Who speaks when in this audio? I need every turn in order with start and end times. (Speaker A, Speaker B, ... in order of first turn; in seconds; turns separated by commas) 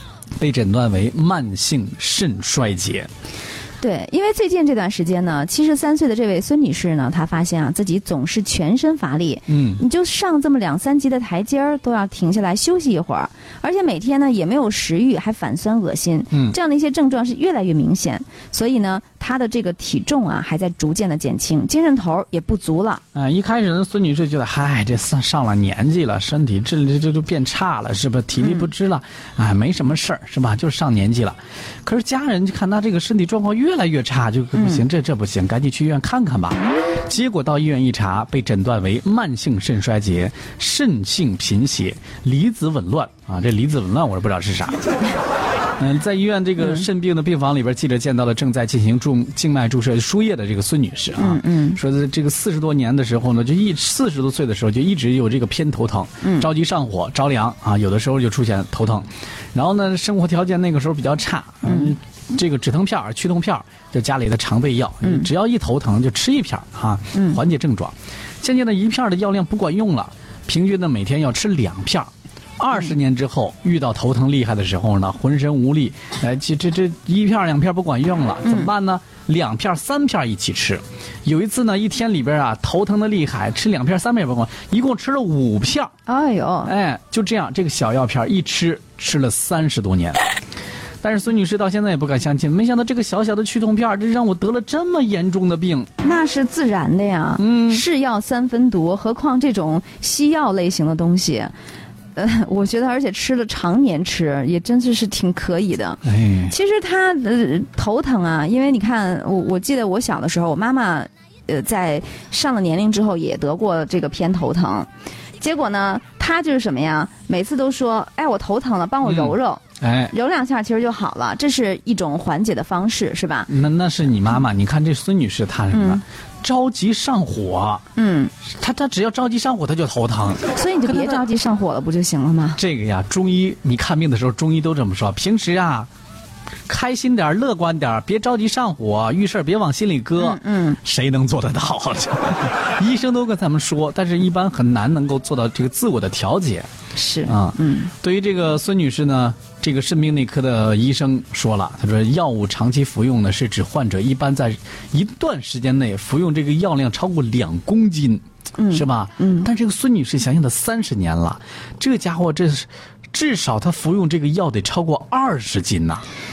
Speaker A: 0.4-3.1, Speaker B: 3.8-23.0, Speaker A: 9.5-9.8, Speaker A: 23.1-44.9, Speaker B: 28.4-28.7, Speaker B: 34.5-34.8, Speaker A: 45.8-85.9, Speaker B: 51.2-51.8, Speaker B: 56.2-56.5, Speaker B: 61.6-61.9, Speaker B: 78.4-78.7, Speaker B: 86.1-86.7, Speaker A: 86.6-90.2, Speaker A: 91.0-95.9, Speaker B: 96.0-101.5, Speaker A: 97.4-97.8, Speaker B: 102.1-114.9, Speaker A: 106.0-106.5, Speaker B: 115.4-123.5, Speaker A: 119.0-120.1, Speaker A: 123.5-127.8, Speaker B: 125.7-126.0, Speaker B: 128.0-128.3, Speaker A: 128.5-130.5, Speaker B: 130.5-132.6, Speaker A: 132.6-135.9, Speaker A: 136.7-146.7, Speaker B: 140.2-140.8, Speaker B: 146.9-147.9, Speaker A: 147.3-166.0, Speaker B: 158.6-159.5